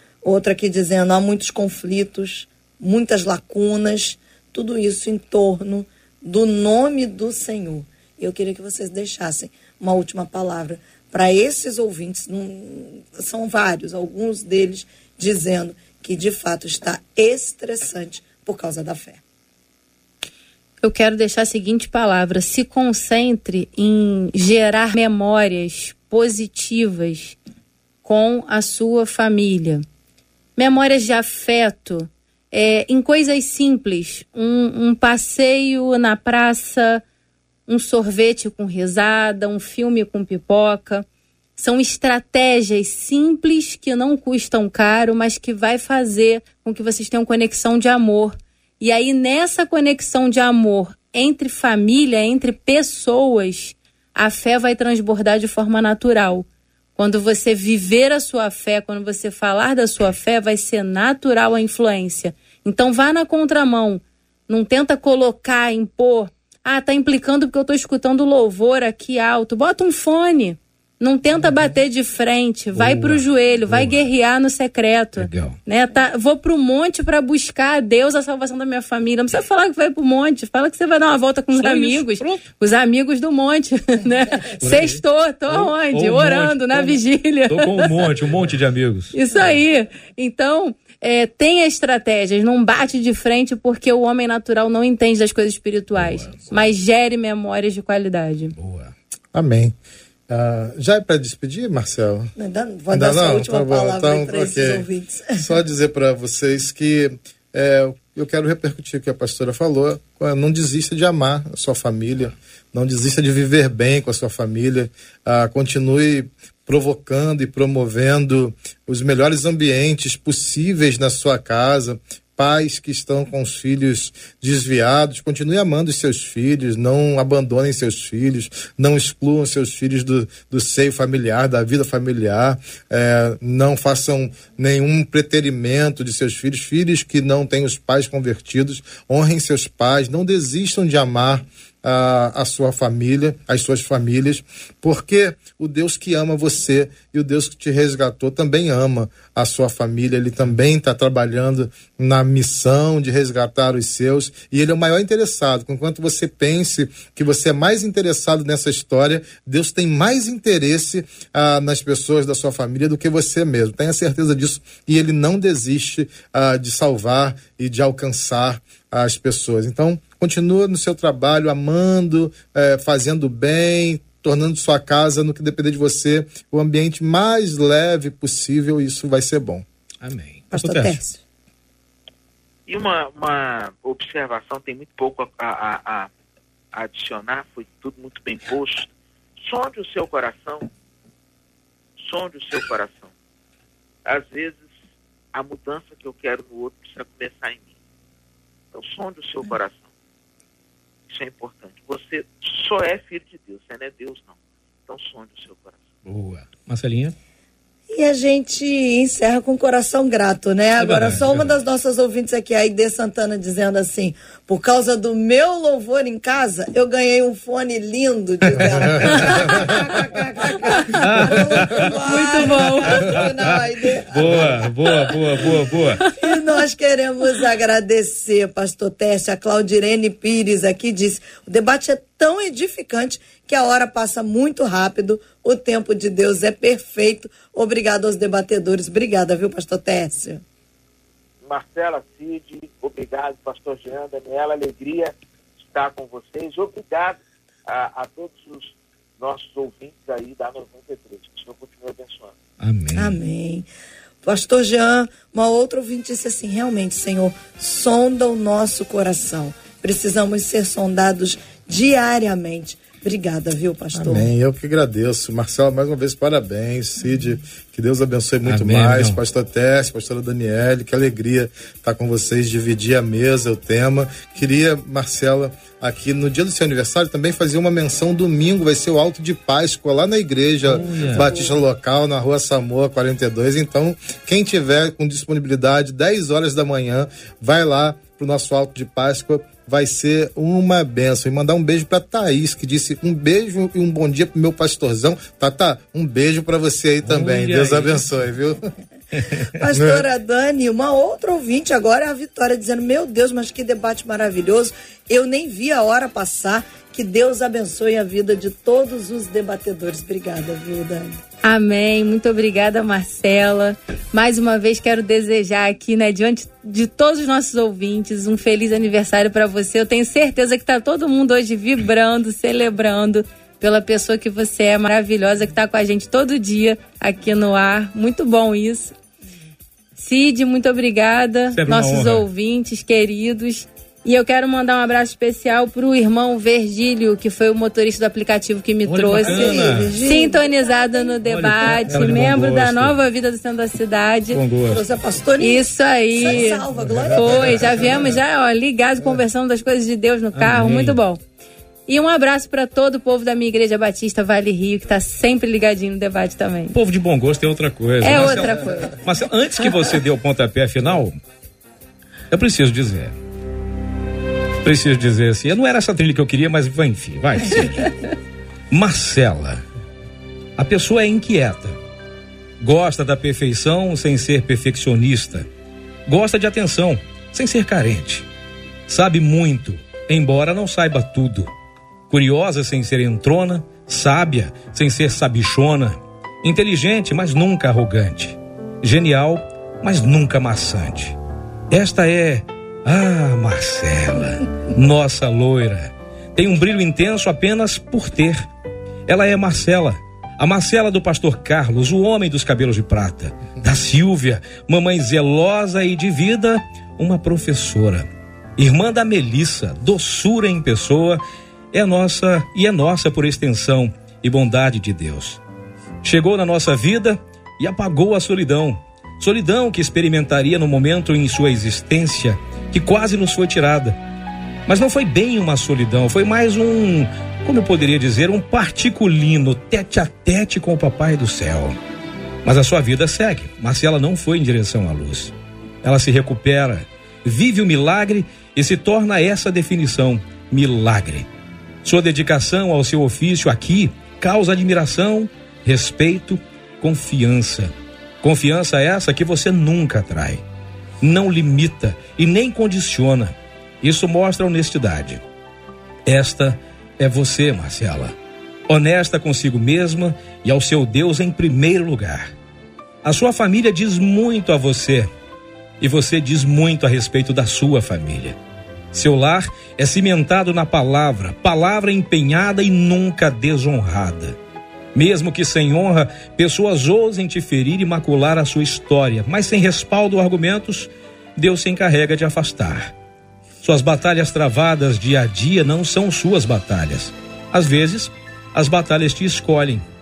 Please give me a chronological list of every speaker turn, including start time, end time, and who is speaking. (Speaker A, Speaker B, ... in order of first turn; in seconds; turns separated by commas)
Speaker A: 0.2-19.2, Speaker B: 20.8-27.4, Speaker B: 28.0-29.8, Speaker B: 30.6-37.0, Speaker B: 37.7-41.0, Speaker B: 41.6-88.0, Speaker C: 72.7-74.1, Speaker C: 75.2-75.6, Speaker C: 81.5-82.4, Speaker C: 84.6-89.2, Speaker B: 89.1-98.5, Speaker C: 96.0-96.5, Speaker C: 98.5-98.9, Speaker D: 99.3-99.7, Speaker D: 100.3-102.3, Speaker A: 102.4-105.4, Speaker D: 102.9-179.6, Speaker C: 180.0-181.0, Speaker A: 180.5-181.2, Speaker E: 182.7-186.1, Speaker E: 186.7-190.7, Speaker E: 192.0-193.1, Speaker E: 194.1-194.7, Speaker E: 195.3-197.7, Speaker E: 198.7-199.9, Speaker E: 201.1-204.3, Speaker E: 204.9-205.8, Speaker C: 206.1-207.1, Speaker A: 207.9-240.4, Speaker C: 210.8-211.4, Speaker C: 220.8-222.0, Speaker B: 222.0-223.2, Speaker C: 222.9-223.4, Speaker C: 223.9-226.1, Speaker E: 241.4-245.1, Speaker E: 245.7-252.3, Speaker C: 252.6-253.2, Speaker A: 252.9-253.7, Speaker A: 254.2-264.3, Speaker D: 263.9-298.6, Speaker C: 268.4-269.2, Speaker C: 280.7-281.3, Speaker C: 297.0-298.0, Speaker C: 299.1-299.5, Speaker A: 299.5-311.2, Speaker D: 299.7-300.0, Speaker B: 311.4-328.9, Speaker B: 330.0-344.4, Speaker C: 331.5-332.3, Speaker C: 338.9-339.9, Speaker A: 339.2-341.9, Speaker C: 341.2-343.0, Speaker C: 344.3-344.8, Speaker A: 344.6-347.9, Speaker B: 345.4-351.2, Speaker C: 350.3-351.0, Speaker B: 351.9-356.8, Speaker C: 356.7-361.1, Speaker B: 358.0-359.0, Speaker C: 362.3-363.1, Speaker C: 364.6-368.0, Speaker C: 368.7-369.6, Speaker C: 370.6-371.8, Speaker C: 372.6-375.5, Speaker C: 376.1-378.2, Speaker C: 378.9-381.5, Speaker C: 382.1-391.2, Speaker C: 391.7-398.5, Speaker C: 399.1-408.1, Speaker C: 408.6-411.2, Speaker C: 411.7-415.4, Speaker C: 416.0-424.0, Speaker C: 424.7-431.8, Speaker C: 432.4-441.3, Speaker C: 441.8-450.4, Speaker C: 451.0-455.2, Speaker C: 456.1-458.1, Speaker C: 458.7-462.3, Speaker C: 463.0-465.1, Speaker C: 465.8-468.4, Speaker C: 468.9-474.4, Speaker C: 474.9-482.9, Speaker C: 483.6-489.8